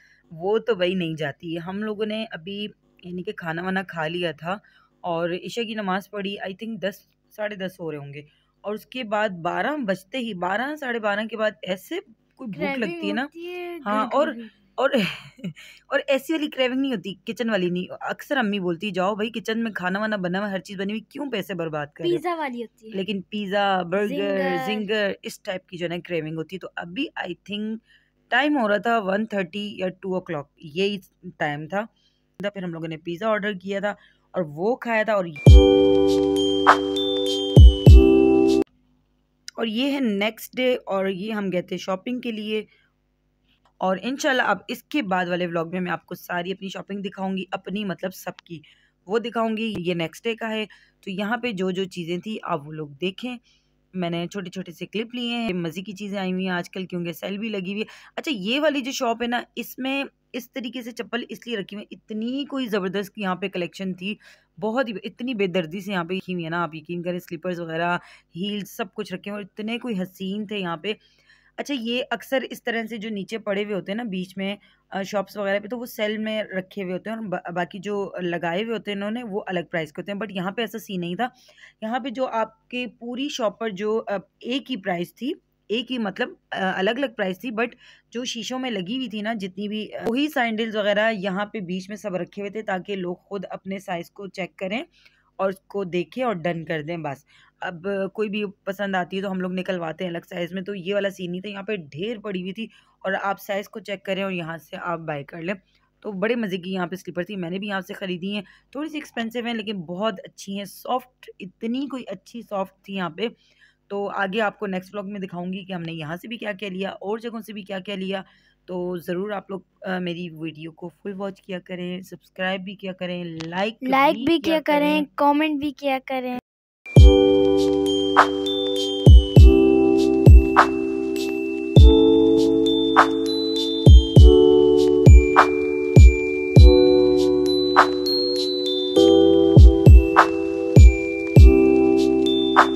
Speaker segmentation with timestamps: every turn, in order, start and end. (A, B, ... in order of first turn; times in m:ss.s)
0:00.3-0:13.3 A
0:12.5-0:14.6 B
0:13.8-0:22.2 A
0:22.0-0:23.0 B
0:22.9-0:35.4 A
0:24.0-0:24.9 B
0:39.6-0:42.7 A
0:43.8-0:53.4 A
0:54.0-1:11.0 A
1:11.6-1:34.9 A
1:35.4-1:53.3 A
1:53.9-2:05.1 A
2:03.8-2:06.4 B